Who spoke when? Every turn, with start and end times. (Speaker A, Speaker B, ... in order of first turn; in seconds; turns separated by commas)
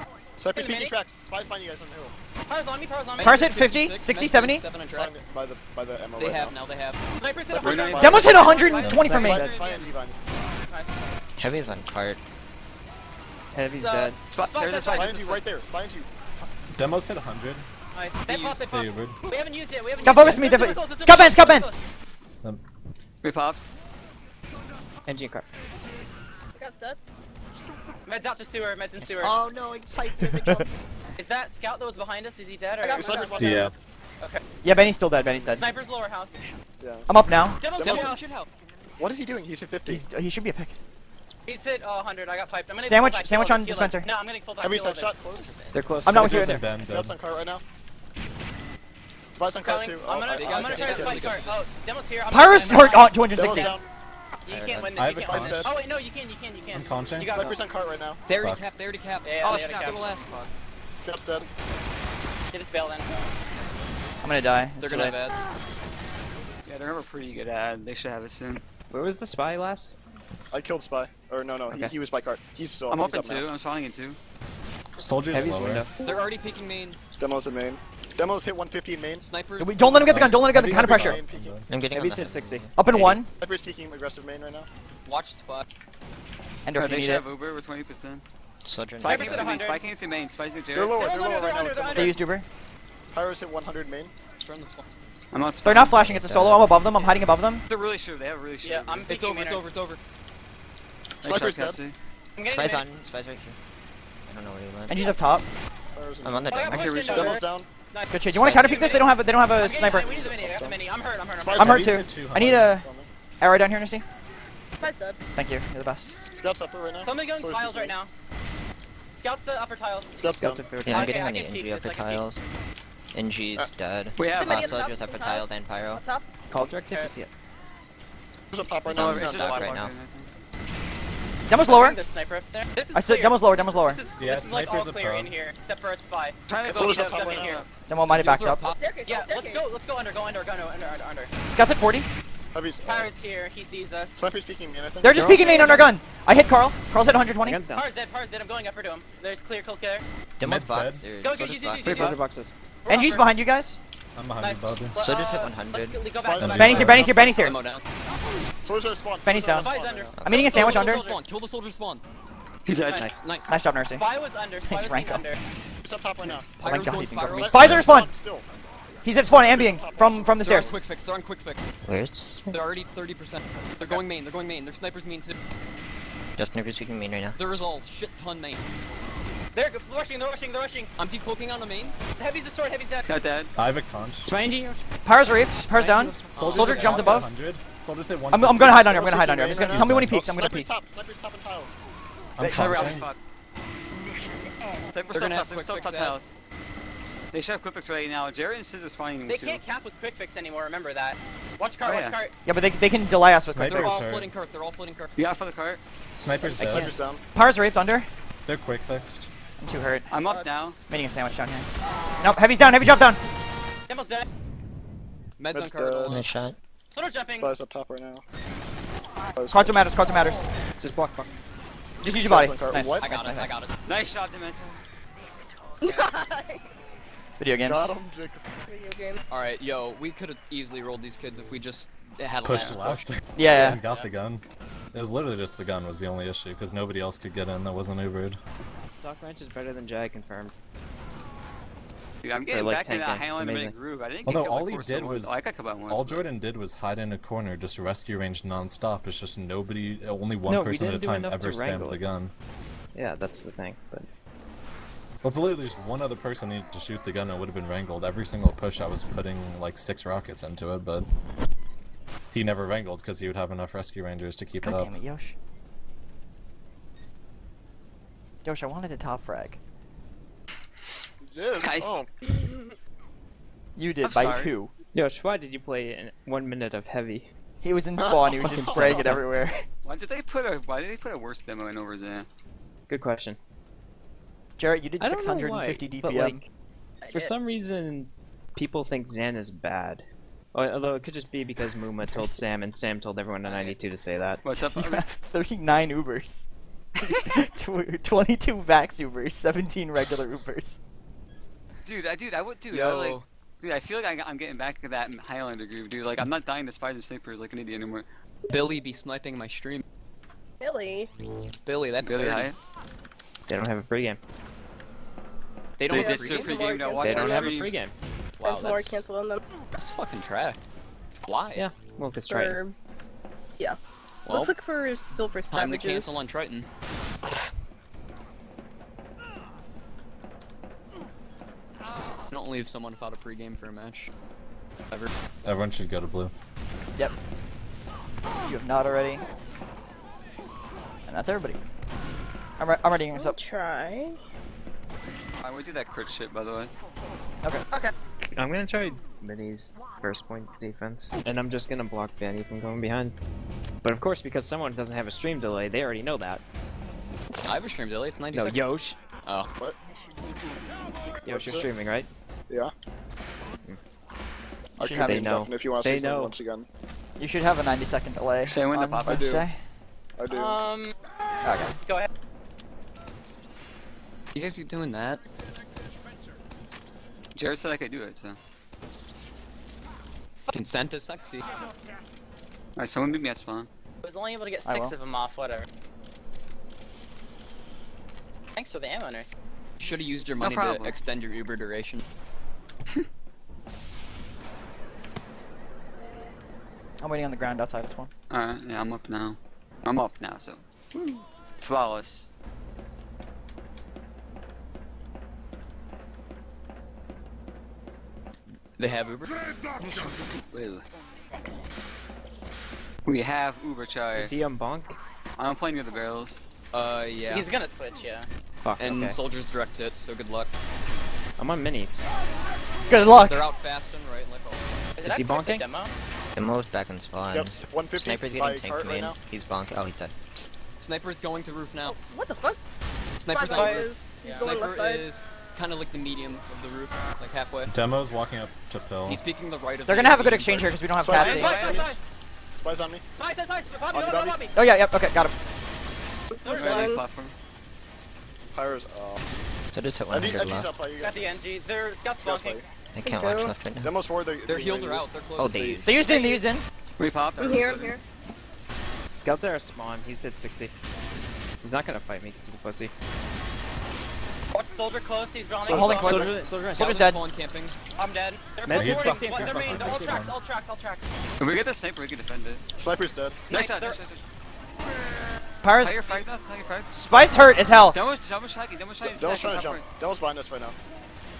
Speaker A: 0.4-2.1, Speaker B: 0.5-0.9, Speaker B: 2.5-3.5, Speaker C: 3.2-5.1, Speaker D: 3.2-4.6, Speaker A: 4.9-6.5, Speaker C: 6.2-7.0, Speaker B: 7.2-8.9, Speaker A: 7.5-10.2, Speaker E: 7.6-9.9, Speaker D: 8.0-9.4, Speaker F: 8.8-9.1, Speaker G: 8.9-9.7, Speaker B: 10.6-11.1, Speaker H: 11.4-12.2, Speaker G: 13.5-14.2, Speaker B: 13.8-15.2, Speaker E: 14.3-15.4, Speaker A: 14.9-16.1, Speaker F: 16.7-17.6, Speaker B: 17.9-21.8, Speaker F: 18.5-19.2, Speaker D: 20.0-21.7, Speaker E: 23.2-23.6, Speaker G: 25.1-25.4, Speaker I: 26.6-27.0, Speaker B: 28.1-29.4, Speaker H: 29.0-30.7, Speaker B: 31.2-33.4, Speaker I: 32.8-33.6, Speaker A: 32.9-33.7, Speaker F: 33.4-33.7, Speaker D: 34.6-35.6, Speaker B: 35.5-36.3, Speaker A: 36.8-37.1, Speaker D: 37.1-37.6, Speaker B: 37.6-38.3, Speaker A: 37.8-38.1, Speaker C: 37.8-38.5, Speaker A: 39.0-40.0, Speaker D: 39.9-40.7, Speaker B: 41.5-45.3, Speaker D: 42.8-44.1, Speaker A: 44.6-45.5, Speaker H: 45.6-45.9, Speaker G: 45.7-46.7, Speaker D: 46.0-46.6, Speaker F: 46.1-47.2, Speaker A: 46.4-47.6, Speaker A: 49.3-51.3, Speaker B: 49.6-53.7, Speaker C: 50.3-51.6, Speaker D: 52.3-53.8, Speaker A: 53.3-53.8, Speaker B: 54.4-57.6, Speaker H: 54.5-55.0, Speaker F: 54.9-55.7, Speaker A: 55.2-55.8, Speaker F: 56.7-57.3, Speaker A: 57.4-58.2, Speaker C: 58.3-60.1, Speaker F: 58.4-58.7, Speaker B: 59.2-60.2, Speaker E: 59.4-60.5, Speaker A: 61.0-61.5, Speaker B: 62.5-63.1, Speaker D: 64.2-65.2, Speaker C: 64.8-65.4, Speaker E: 66.7-68.6, Speaker G: 68.9-70.0, Speaker A: 70.5-73.5, Speaker E: 72.9-74.2, Speaker F: 75.0-75.9, Speaker G: 75.3-76.0, Speaker C: 76.0-77.0, Speaker A: 77.2-79.2, Speaker C: 79.2-80.3, Speaker D: 79.6-81.2, Speaker F: 80.0-81.7, Speaker A: 80.4-81.6, Speaker H: 81.7-82.8, Speaker G: 81.9-83.2, Speaker D: 82.8-83.3, Speaker A: 82.9-84.7, Speaker C: 85.0-85.7, Speaker D: 86.6-87.2, Speaker E: 86.8-88.2, Speaker H: 88.6-89.5, Speaker E: 89.0-91.1, Speaker B: 89.0-89.9, Speaker A: 90.7-92.1, Speaker B: 91.0-92.2, Speaker D: 91.9-92.4, Speaker A: 93.1-94.1, Speaker C: 94.4-94.8, Speaker E: 95.3-96.2, Speaker D: 95.6-97.6, Speaker H: 96.0-96.8, Speaker E: 97.7-99.1, Speaker B: 98.6-99.6, Speaker C: 99.1-100.0, Speaker A: 101.2-101.8, Speaker E: 101.2-102.0, Speaker B: 102.4-102.8, Speaker H: 102.4-103.6, Speaker H: 104.2-105.1, Speaker D: 104.9-105.4, Speaker A: 105.9-107.7, Speaker H: 106.2-107.1, Speaker B: 106.5-111.8, Speaker E: 106.7-107.4, Speaker D: 108.1-110.1, Speaker H: 108.3-109.0, Speaker A: 109.9-110.8, Speaker A: 111.4-113.1, Speaker D: 111.6-112.8, Speaker F: 111.6-112.7, Speaker D: 113.4-114.0, Speaker I: 114.8-115.2, Speaker D: 115.3-116.2, Speaker A: 116.3-117.9, Speaker B: 117.0-118.1, Speaker B: 119.1-120.2, Speaker A: 120.1-120.8, Speaker G: 120.2-121.2, Speaker H: 120.8-122.4, Speaker B: 120.8-122.3, Speaker H: 123.1-126.0, Speaker E: 124.2-124.7, Speaker I: 124.3-126.3, Speaker G: 126.5-127.3, Speaker A: 128.5-129.7, Speaker H: 128.9-129.9, Speaker E: 128.9-130.3, Speaker D: 131.5-132.0, Speaker B: 131.6-137.7, Speaker D: 132.9-134.0, Speaker F: 134.2-135.3, Speaker E: 136.5-137.7, Speaker A: 136.7-137.6, Speaker D: 137.9-138.7, Speaker C: 138.1-138.8, Speaker I: 138.8-139.7, Speaker B: 139.0-141.3, Speaker D: 141.4-142.1, Speaker A: 142.5-143.1, Speaker B: 142.8-144.3, Speaker A: 144.2-145.7, Speaker D: 145.0-147.6, Speaker G: 145.1-145.9, Speaker G: 147.4-147.8, Speaker B: 147.7-150.1, Speaker H: 150.4-152.1, Speaker F: 150.4-151.1, Speaker B: 151.2-152.2, Speaker E: 151.8-152.1, Speaker G: 151.9-152.6, Speaker B: 152.8-153.4, Speaker D: 152.9-153.8, Speaker F: 154.1-155.0, Speaker B: 154.4-157.2, Speaker H: 154.9-156.1, Speaker A: 156.2-157.6, Speaker F: 156.4-157.1, Speaker D: 156.6-157.6, Speaker C: 157.2-157.8, Speaker A: 158.6-160.2, Speaker D: 159.2-159.7, Speaker B: 159.5-161.2, Speaker H: 160.2-160.9, Speaker D: 160.2-161.0, Speaker C: 160.6-162.0, Speaker E: 162.6-163.1, Speaker C: 163.1-163.6, Speaker D: 163.5-164.0, Speaker B: 163.8-165.4, Speaker D: 164.7-165.2, Speaker A: 165.8-168.5, Speaker C: 166.2-167.7, Speaker D: 166.6-168.1, Speaker D: 169.0-170.7, Speaker A: 169.2-170.8, Speaker C: 170.4-171.6, Speaker H: 171.8-172.5, Speaker C: 172.5-175.4, Speaker H: 176.4-177.6, Speaker C: 177.3-178.6, Speaker B: 179.5-180.9, Speaker C: 181.0-181.9, Speaker B: 182.2-183.1, Speaker E: 183.0-183.5, Speaker F: 183.6-184.3, Speaker G: 184.2-184.8, Speaker D: 185.0-187.3, Speaker G: 185.7-187.2, Speaker F: 186.3-188.9, Speaker C: 186.3-186.9, Speaker D: 188.3-190.7, Speaker A: 188.7-191.7, Speaker F: 189.7-190.1, Speaker F: 192.4-193.0, Speaker D: 192.4-192.9, Speaker B: 192.6-193.1, Speaker E: 192.6-193.2, Speaker J: 193.9-195.1, Speaker E: 194.9-196.3, Speaker C: 195.1-196.2, Speaker E: 197.3-199.6, Speaker B: 199.2-202.3, Speaker E: 201.8-202.2, Speaker D: 202.4-204.0, Speaker F: 203.3-204.3, Speaker C: 203.7-205.1, Speaker E: 205.2-205.8, Speaker F: 206.1-206.9, Speaker A: 206.4-207.2, Speaker D: 206.6-208.1, Speaker F: 208.4-209.3, Speaker D: 209.6-210.1, Speaker E: 210.1-210.8, Speaker D: 210.9-211.7, Speaker D: 212.2-213.2, Speaker B: 213.9-214.2, Speaker C: 215.4-216.2, Speaker A: 215.5-216.2, Speaker H: 216.1-216.6, Speaker B: 216.9-217.5, Speaker A: 217.3-218.2, Speaker A: 219.3-219.9, Speaker D: 219.5-220.4, Speaker G: 220.8-221.4, Speaker D: 222.0-223.6, Speaker A: 222.0-223.1, Speaker C: 223.0-223.7, Speaker E: 223.8-224.8, Speaker J: 225.4-225.9, Speaker I: 225.8-226.7, Speaker D: 227.4-227.9, Speaker A: 227.6-228.4, Speaker I: 228.7-229.2, Speaker C: 229.3-233.0, Speaker F: 232.4-234.4, Speaker E: 232.5-232.8, Speaker D: 233.3-233.8, Speaker F: 234.9-238.4, Speaker G: 238.9-240.5, Speaker E: 242.2-246.2, Speaker G: 242.3-243.8, Speaker F: 244.2-252.3, Speaker G: 250.4-252.0, Speaker G: 252.9-254.1, Speaker F: 255.2-261.1, Speaker F: 262.3-265.0, Speaker D: 264.6-265.3, Speaker D: 268.4-269.6, Speaker A: 271.2-272.1, Speaker E: 271.6-271.9, Speaker I: 272.4-272.6, Speaker D: 273.8-274.7, Speaker E: 274.0-274.5, Speaker G: 274.9-277.3, Speaker D: 277.6-279.6, Speaker A: 278.0-279.1, Speaker G: 278.4-279.3, Speaker E: 279.8-282.3, Speaker G: 282.9-283.4, Speaker D: 284.6-286.4, Speaker G: 285.0-286.4, Speaker B: 287.0-287.3, Speaker G: 287.1-294.5, Speaker D: 292.1-292.4, Speaker E: 294.4-295.0, Speaker D: 294.6-296.4, Speaker E: 297.0-297.3, Speaker D: 297.2-300.8, Speaker E: 301.8-308.1, Speaker C: 302.7-303.2, Speaker C: 308.5-309.8, Speaker I: 310.6-311.1, Speaker C: 311.6-312.5, Speaker E: 312.0-312.6, Speaker G: 313.5-314.2, Speaker C: 315.8-317.4, Speaker E: 315.9-317.8, Speaker I: 315.9-317.5, Speaker G: 317.0-317.9, Speaker C: 318.4-319.0, Speaker I: 318.4-319.4, Speaker C: 319.8-320.6, Speaker C: 321.2-321.6, Speaker G: 321.5-322.6, Speaker I: 322.3-322.7, Speaker I: 323.6-326.2, Speaker C: 324.2-324.5, Speaker C: 325.5-326.7, Speaker C: 332.3-334.1, Speaker F: 335.4-336.3, Speaker D: 338.4-339.2, Speaker D: 341.1-341.6, Speaker D: 342.6-343.4, Speaker I: 343.1-344.2, Speaker E: 345.4-346.7, Speaker G: 348.3-353.1, Speaker G: 353.8-356.4, Speaker C: 357.4-358.7, Speaker G: 358.3-359.0, Speaker C: 359.2-359.5, Speaker J: 359.8-361.3, Speaker A: 361.2-361.7, Speaker G: 361.3-362.1, Speaker D: 364.8-365.4, Speaker A: 364.8-366.7, Speaker G: 364.9-366.4, Speaker D: 367.2-369.6, Speaker E: 368.4-369.3, Speaker A: 369.0-369.5, Speaker A: 370.2-370.6, Speaker B: 370.3-370.9, Speaker D: 371.4-371.8, Speaker B: 371.8-372.1, Speaker C: 374.3-375.2, Speaker E: 377.3-378.4, Speaker C: 380.5-381.4, Speaker E: 382.8-383.7, Speaker B: 384.0-385.7, Speaker D: 384.6-384.9, Speaker B: 388.6-389.3, Speaker C: 389.8-392.0, Speaker E: 390.4-391.0, Speaker D: 397.0-398.1, Speaker E: 398.3-400.6, Speaker E: 401.6-402.3, Speaker C: 408.8-409.4, Speaker J: 409.8-411.6, Speaker E: 410.5-410.8, Speaker E: 413.0-414.3, Speaker G: 414.1-414.9, Speaker E: 415.4-416.4, Speaker C: 416.7-417.5, Speaker B: 417.3-418.3, Speaker G: 418.6-419.2, Speaker C: 418.8-420.5, Speaker G: 421.4-422.0, Speaker D: 422.9-423.4, Speaker C: 423.1-424.6, Speaker B: 424.9-425.9, Speaker G: 425.0-425.6, Speaker H: 426.3-430.1, Speaker A: 427.1-429.2, Speaker C: 430.8-432.0, Speaker I: 431.8-432.6, Speaker C: 433.2-437.7, Speaker I: 433.3-435.1, Speaker B: 433.4-434.6, Speaker F: 437.7-439.2, Speaker C: 439.0-440.7, Speaker D: 439.9-441.6, Speaker A: 441.0-441.9, Speaker B: 441.1-442.0, Speaker E: 441.2-441.9, Speaker A: 442.6-443.0, Speaker B: 443.2-444.6, Speaker A: 443.9-444.4, Speaker D: 444.5-445.3, Speaker I: 446.3-447.0, Speaker B: 446.4-447.0, Speaker E: 446.4-447.3, Speaker A: 448.5-449.2, Speaker H: 449.7-450.7, Speaker A: 450.1-451.4, Speaker B: 451.0-452.6, Speaker A: 452.1-452.6, Speaker H: 452.9-453.9, Speaker I: 453.0-453.6, Speaker A: 453.8-455.8, Speaker C: 454.4-455.8, Speaker H: 455.3-456.1, Speaker D: 455.8-456.6, Speaker B: 456.1-456.4, Speaker E: 457.0-458.0, Speaker I: 457.4-458.0, Speaker G: 459.1-460.7, Speaker G: 461.6-462.9, Speaker B: 464.5-466.3, Speaker A: 465.6-466.3, Speaker D: 465.6-467.2, Speaker G: 466.0-467.0, Speaker C: 466.7-467.8, Speaker B: 467.9-471.0, Speaker G: 468.6-470.3, Speaker F: 468.7-470.3, Speaker E: 471.4-472.6, Speaker A: 472.7-473.4, Speaker B: 473.5-474.0, Speaker E: 473.5-474.2, Speaker D: 475.6-476.0, Speaker E: 475.8-479.9, Speaker D: 476.9-478.0, Speaker A: 479.0-480.8